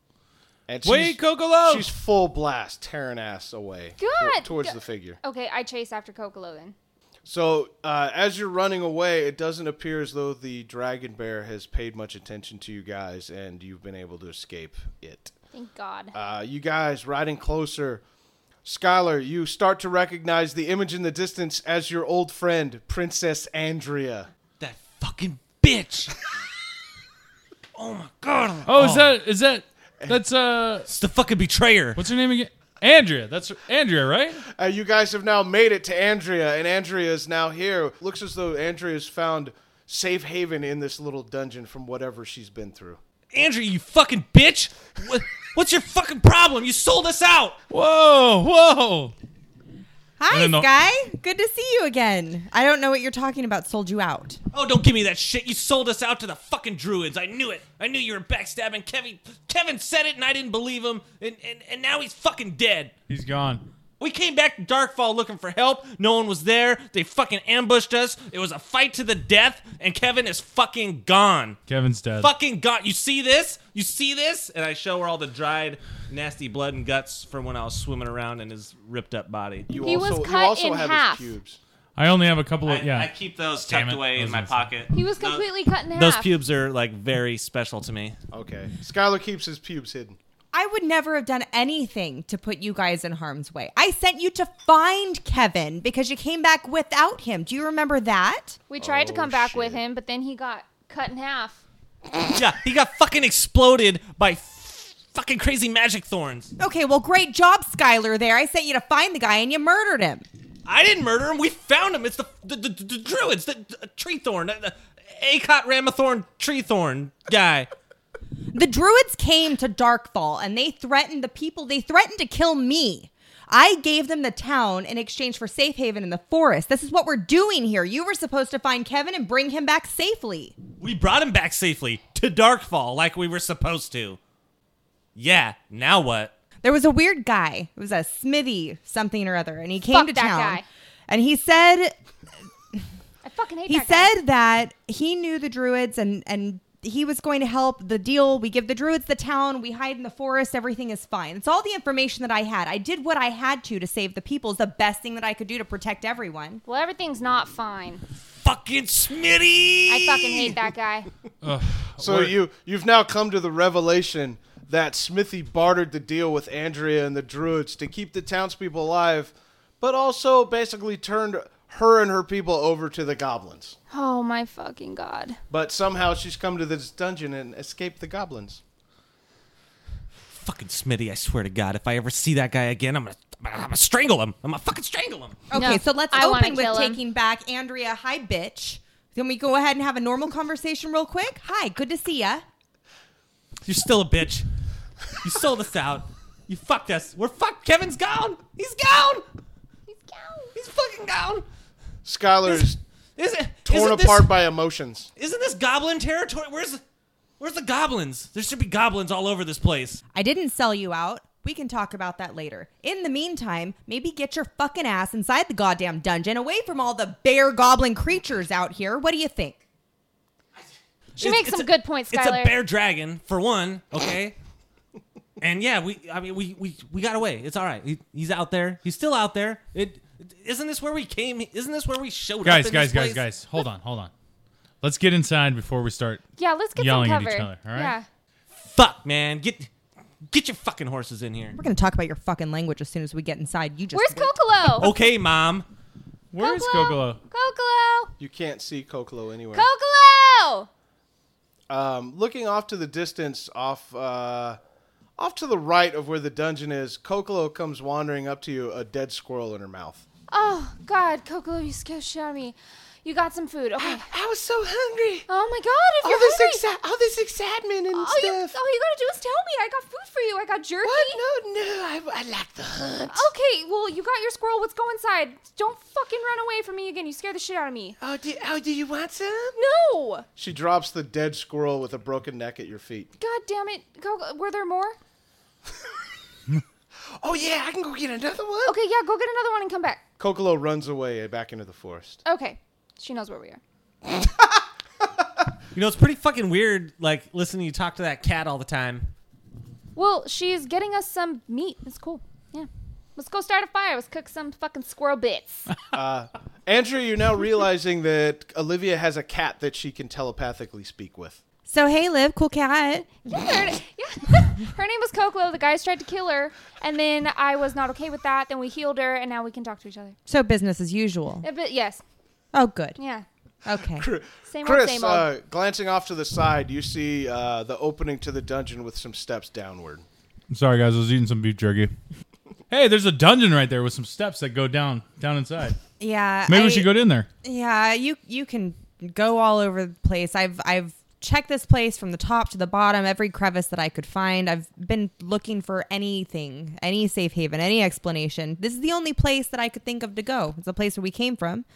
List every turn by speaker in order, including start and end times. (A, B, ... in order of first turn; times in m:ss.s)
0:00.7-0:05.2 A
0:00.8-0:01.9 B
0:04.0-0:06.8 C
0:07.3-0:15.3 A
0:15.5-0:16.1 C
0:16.1-0:18.0 A
0:18.6-0:24.3 A
0:24.6-0:26.2 D
0:27.8-0:29.1 D
0:28.7-0:30.9 B
0:30.9-0:32.0 D
0:32.0-0:34.4 B
0:34.5-0:43.0 A
0:43.3-0:47.6 D
0:47.7-0:49.1 B
0:50.2-0:54.4 E
0:50.3-0:50.7 B
0:54.5-1:02.9 D
1:03.1-1:03.7 B
1:04.0-1:11.6 D
1:11.7-1:12.3 B
1:12.2-1:19.8 D
1:19.7-1:21.6 A
1:19.8-1:21.3 C
1:22.0-1:23.1 B
1:22.6-1:28.2 D
1:23.6-1:24.7 B
1:24.9-1:26.3 C
1:28.3-1:30.2 A
1:30.5-1:38.6 E
1:38.7-1:41.6 C
1:38.8-1:39.8 A
1:42.3-1:46.5 D
1:46.6-1:50.3 E
1:50.6-1:57.7 D
1:58.5-2:10.6 E
2:10.8-2:14.2 D
2:15.2-2:16.3 D
2:16.6-2:22.0 E
2:19.9-2:20.6 C
2:23.2-2:24.1 C
2:23.7-2:36.6 E
2:36.6-2:38.0 C
2:38.2-2:40.5 D
2:39.9-2:41.1 C
2:41.4-2:42.4 B
2:42.0-2:53.8 A
2:53.9-2:55.4 C
2:55.5-2:58.6 A
3:00.3-3:05.4 D
3:05.5-3:12.4 E
3:05.5-3:07.0 C
3:13.7-3:14.5 D
3:15.2-3:19.3 D
3:19.9-3:20.5 C
3:20.5-3:21.4 D
3:22.0-3:22.8 A
3:22.5-3:24.3 D
3:23.6-3:25.1 A
3:25.2-3:26.8 D
3:27.4-3:30.0 D
3:30.1-3:39.6 E
3:41.2-3:42.6 C
3:41.2-3:44.4 D
3:45.4-3:53.3 D
3:52.4-3:54.1 B
3:54.8-3:58.0 B
3:56.4-3:58.1 C
3:58.5-3:59.7 D
4:00.2-4:01.6 D
4:01.6-4:04.4 E
4:03.9-4:04.9 C
4:04.8-4:05.7 D
4:06.3-4:07.2 B
4:06.4-4:08.1 C
4:08.2-4:09.7 A
4:09.5-4:10.7 C
4:11.7-4:14.6 A
4:15.2-4:20.0 A
4:20.3-4:24.1 C
4:23.8-4:25.3 A
4:25.3-4:26.6 C
4:26.0-4:28.6 A
4:27.9-4:31.2 C
4:30.8-4:33.3 A
4:33.1-4:38.0 C
4:38.0-4:39.6 A
4:39.6-4:40.3 C
4:40.4-4:43.1 A
4:43.2-4:45.0 C
4:47.2-4:48.8 A
4:48.6-4:50.0 C
4:50.2-4:52.2 A
4:52.2-4:53.6 C
4:54.1-4:54.5 A
4:55.7-4:59.1 D
5:00.0-5:05.7 C
5:05.9-5:11.4 A
5:11.7-5:13.3 E
5:13.2-5:20.2 C
5:20.3-5:21.5 E
5:21.4-5:22.0 C
5:22.5-5:23.0 E
5:23.0-5:23.2 C
5:23.6-5:24.1 E
5:23.8-5:30.0 A
5:24.5-5:25.3 C
5:30.5-5:31.9 B
5:32.7-5:35.8 B
5:36.0-5:51.7 E
5:36.5-5:37.3 B